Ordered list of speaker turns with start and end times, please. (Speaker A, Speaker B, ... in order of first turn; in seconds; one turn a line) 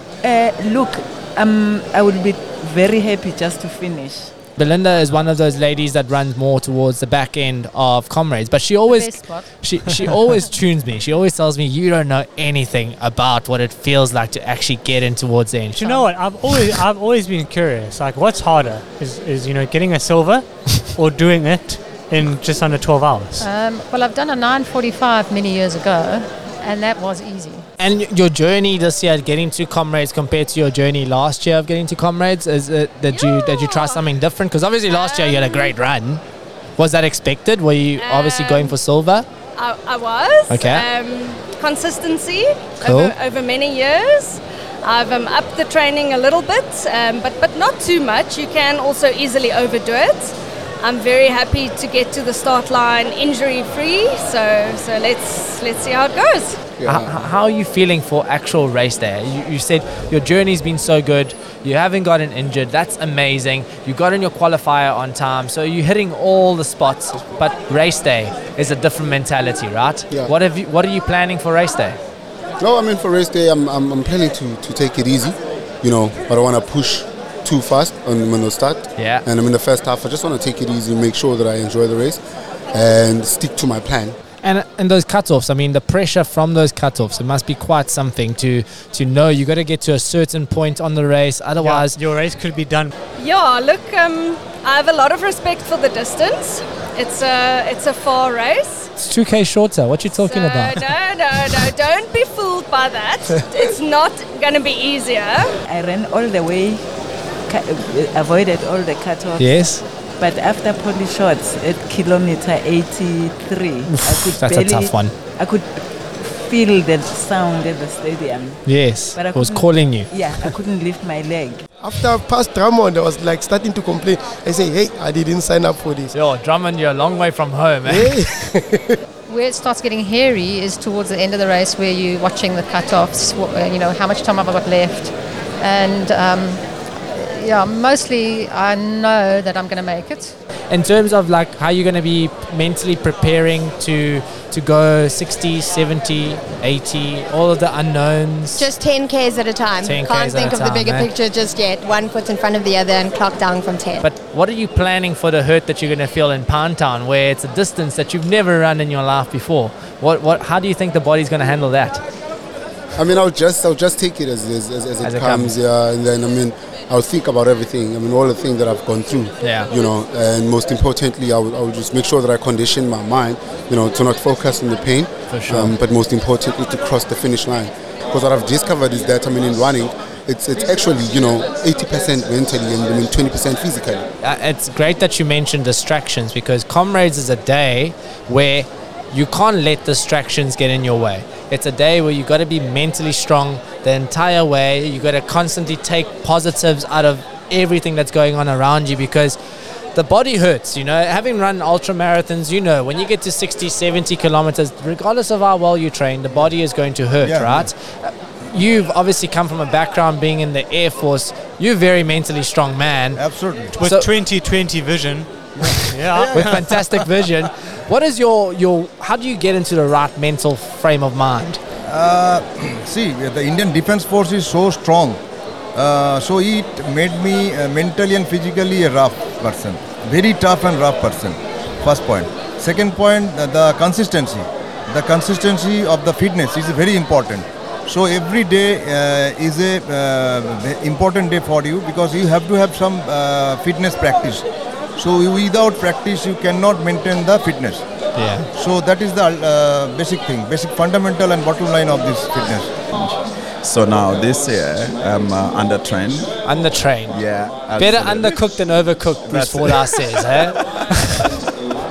Speaker A: 0.2-4.3
Speaker B: 4.6-16.0
Speaker C: 8.9-9.5
Speaker D: 15.8-23.5
Speaker C: 23.4-27.6
Speaker B: 27.8-36.2
Speaker E: 33.1-34.0
Speaker E: 34.9-35.8
Speaker B: 36.8-39.2
Speaker E: 38.0-38.7
Speaker E: 39.6-56.6
Speaker B: 40.5-40.9
Speaker B: 42.8-43.1
Speaker F: 56.8-57.2
Speaker B: 56.8-72.0
Speaker F: 72.6-82.2
Speaker B: 79.0-79.2
Speaker F: 82.7-84.2
Speaker B: 84.4-92.0
Speaker D: 91.6-92.9
Speaker E: 93.2-98.9
Speaker B: 99.0-100.8
Speaker E: 100.1-105.5
Speaker A: 105.7-106.8
Speaker A: 107.5-109.6
Speaker B: 109.4-109.8
Speaker A: 110.2-118.6
Speaker B: 113.8-115.1
Speaker B: 118.6-120.5
Speaker A: 119.1-121.6
Speaker G: 121.8-126.1
Speaker B: 126.1-128.2
Speaker G: 127.8-129.0
Speaker C: 129.3-140.3
Speaker B: 140.7-148.7
Speaker H: 148.5-154.1
Speaker B: 149.8-151.1
Speaker B: 154.0-162.0
Speaker F: 162.9-184.1
Speaker B: 165.0-165.5
Speaker B: 169.4-169.7
Speaker B: 175.3-175.7
Speaker B: 184.2-199.4
Speaker B: 199.9-213.2
Speaker I: 207.2-207.7
Speaker I: 213.2-213.7
Speaker D: 213.7-216.6
Speaker B: 213.8-214.1
Speaker I: 215.6-216.6
Speaker B: 216.3-221.6
Speaker I: 221.8-225.2
Speaker I: 225.7-244.4
Speaker I: 245.0-247.8
Speaker B: 248.2-248.5
Speaker I: 248.5-252.8
Speaker J: 252.9-256.3
Speaker B: 256.4-257.2
Speaker J: 257.1-258.4
Speaker B: 257.7-260.6
Speaker J: 259.2-261.2